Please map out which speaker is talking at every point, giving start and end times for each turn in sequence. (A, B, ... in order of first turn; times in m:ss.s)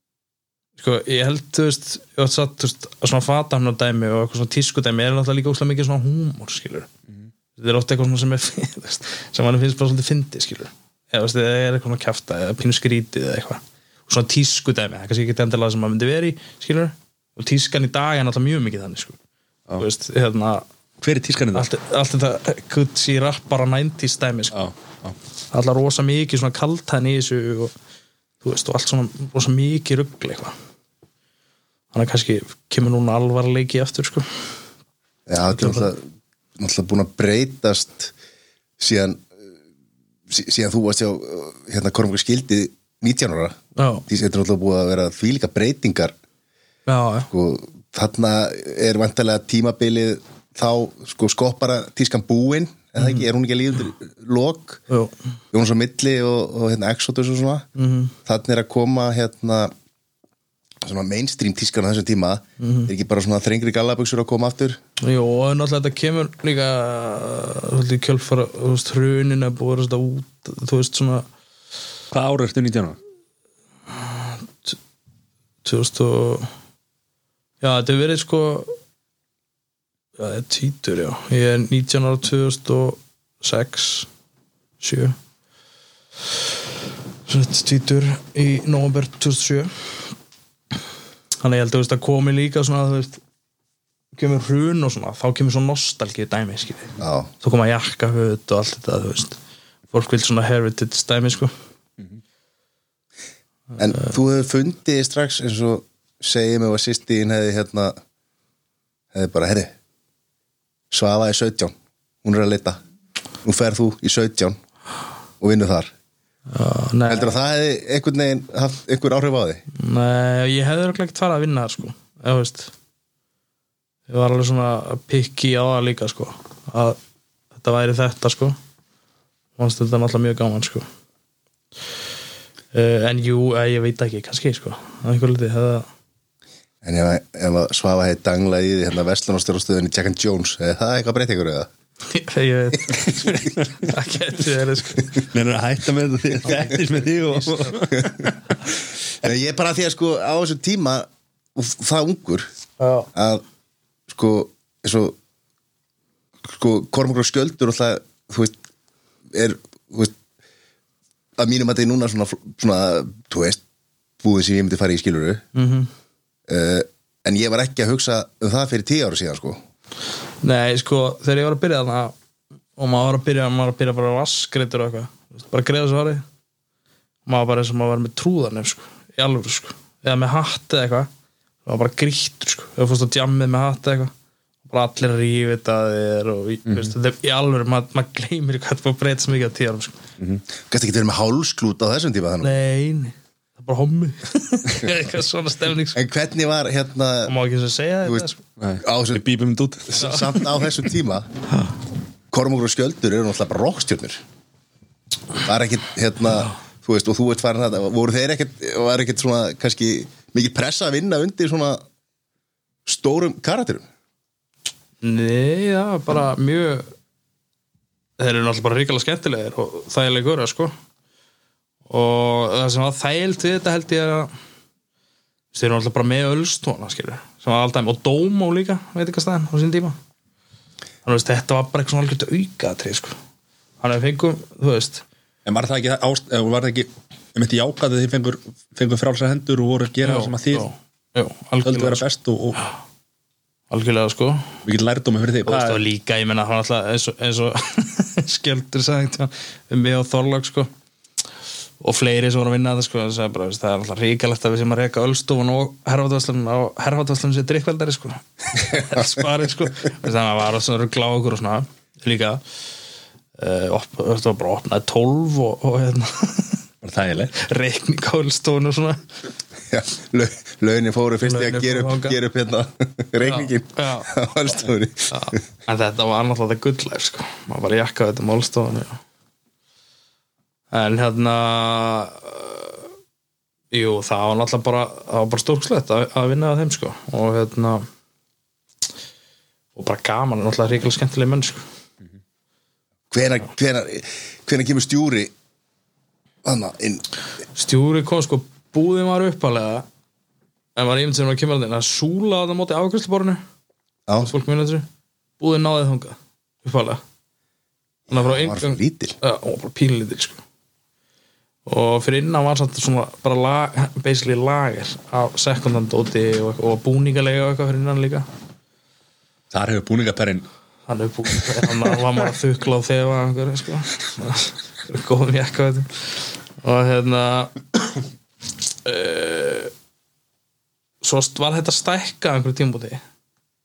0:00.8-0:06.9 A
0:07.6-0:19.2 A
0:19.8-0:20.6 A
0:21.0-0:21.7 B
0:21.5-0:24.6 A
0:24.5-0:25.1 B
0:25.5-0:27.7 A
0:28.4-0:30.5 A
0:31.9-0:34.2 A
0:35.3-0:36.0 C
0:35.4-0:35.9 A
0:36.6-0:38.1 C
0:38.8-0:39.3 C
0:40.3-0:46.1 C
0:43.8-0:44.0 A
0:46.9-0:47.3 A
0:47.3-0:54.8 C
0:53.0-0:53.2 A
0:55.5-0:57.6 C
0:57.8-0:58.1 A
0:58.2-0:59.7 C
1:00.8-1:04.8 C
1:02.6-1:02.9 A
1:05.0-1:11.3 A
1:12.1-1:13.0 B
1:13.9-1:14.8 A
1:15.6-1:16.5 A
1:17.6-1:18.7 A
1:20.2-1:24.1 A
1:24.8-1:25.2 A
1:27.3-1:30.1 A
1:31.4-1:33.2 A
1:34.1-1:39.4 A
1:37.0-1:37.3 C
1:39.9-1:41.5 A
1:43.8-1:48.0 C
1:49.1-1:49.7 C
1:50.9-1:51.7 C
1:52.2-1:52.8 C
1:53.4-1:54.6 C
1:55.4-1:55.9 C
1:56.5-1:57.4 A
1:57.1-1:59.6 C
1:59.7-2:02.7 A
2:04.1-2:07.0 A
2:07.5-2:08.6 A
2:09.6-2:10.8 A
2:12.7-2:15.9 A
2:16.8-2:21.7 C
2:22.1-2:25.3 A
2:23.0-2:23.9 B
2:25.2-2:28.6 B
2:26.4-2:26.7 A
2:27.3-2:27.8 A
2:29.2-2:32.5 C
2:32.8-2:33.1 A
2:33.1-2:33.4 C
2:34.1-2:35.2 C
2:36.4-2:38.5 C
2:39.3-2:40.1 C
2:41.4-2:43.6 C
2:44.2-2:45.4 C
2:45.5-2:45.9 A
2:46.5-2:49.6 C
2:50.4-2:52.1 A
2:52.8-2:56.2 A
2:57.2-3:01.1 A
3:01.6-3:04.1 A
3:04.7-3:10.0 A
3:10.6-3:12.6 C
3:12.4-3:16.0 A
3:15.9-3:17.3 C
3:17.3-3:18.4 A
3:18.6-3:20.1 B
3:18.8-3:19.2 C
3:19.9-3:21.3 C
3:20.0-3:20.3 A
3:22.3-3:24.2 C
3:25.4-3:31.8 C
3:32.8-3:33.9 C
3:35.0-3:36.9 A
3:38.2-3:40.7 A
3:41.9-3:44.3 A
3:45.5-3:50.0 A
3:51.0-3:53.1 A
3:53.8-3:55.0 A
3:55.4-4:00.7 B
4:00.0-4:02.0 A
4:01.6-4:02.6 B
4:03.7-4:04.5 A
4:04.6-4:05.8 B
4:05.4-4:10.7 A
4:11.8-4:22.4 A
4:23.4-4:26.6 A
4:26.8-4:27.3 B
4:27.3-4:29.0 A
4:29.7-4:35.4 C
4:31.2-4:32.2 A
4:33.2-4:34.1 A
4:35.1-4:39.0 A
4:40.7-4:42.8 A
4:43.7-4:47.9 A
4:49.8-4:51.6 A
4:53.1-4:55.3 C
4:56.4-4:57.0 C
4:57.5-4:59.8 A
5:00.8-5:03.4 A
5:04.2-5:04.9 A
5:05.4-5:07.0 A
5:08.1-5:09.1 C
5:08.1-5:10.4 A
5:11.7-5:18.3 A
5:19.5-5:20.4 B
5:20.9-5:27.6 A
5:28.8-5:29.7 A
5:31.0-5:33.0 A